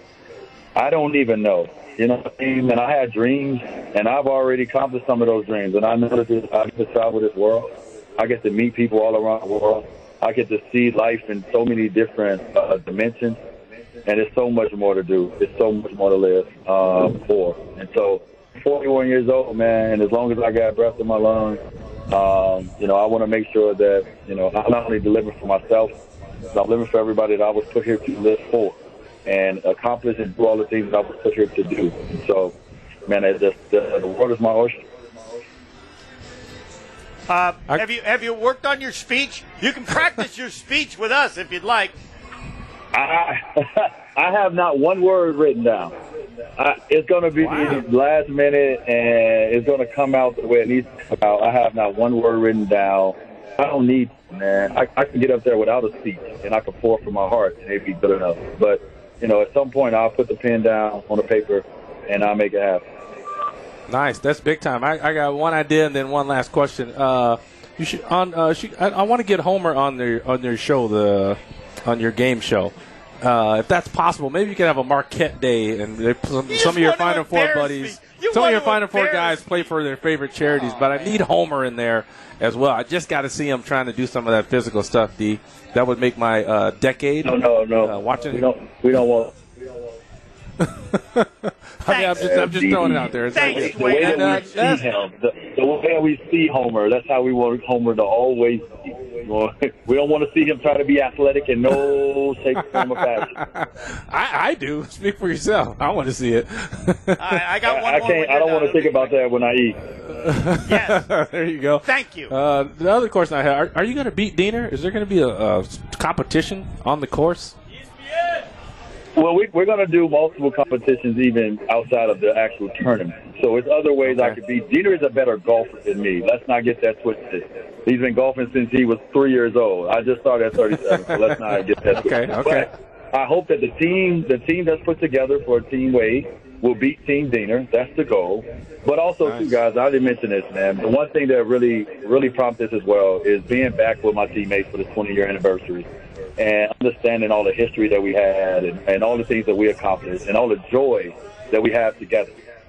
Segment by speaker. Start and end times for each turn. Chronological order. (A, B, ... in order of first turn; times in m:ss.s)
0:00.8-0:13.4 A
0:14.1-0:25.9 A
0:26.5-0:32.5 A
0:33.1-0:34.8 A
0:37.3-0:41.9 B
0:42.9-0:45.9 A
0:46.6-1:02.8 A
0:47.4-0:47.8 C
1:03.9-1:28.4 C
1:16.5-1:19.7 B
1:20.5-1:21.2 B
1:27.2-1:29.3 A
1:30.9-1:34.8 C
1:31.8-1:32.3 B
1:32.1-1:43.3 A
1:33.3-1:34.5 B
1:42.7-1:47.4 C
1:47.2-1:49.2 B
1:47.6-1:49.8 A
1:50.2-1:57.6 C
1:50.7-1:51.0 B
1:51.8-1:52.3 B
1:59.2-2:25.9 A
2:04.0-2:04.4 C
2:11.9-2:12.7 C
2:26.4-2:32.3 A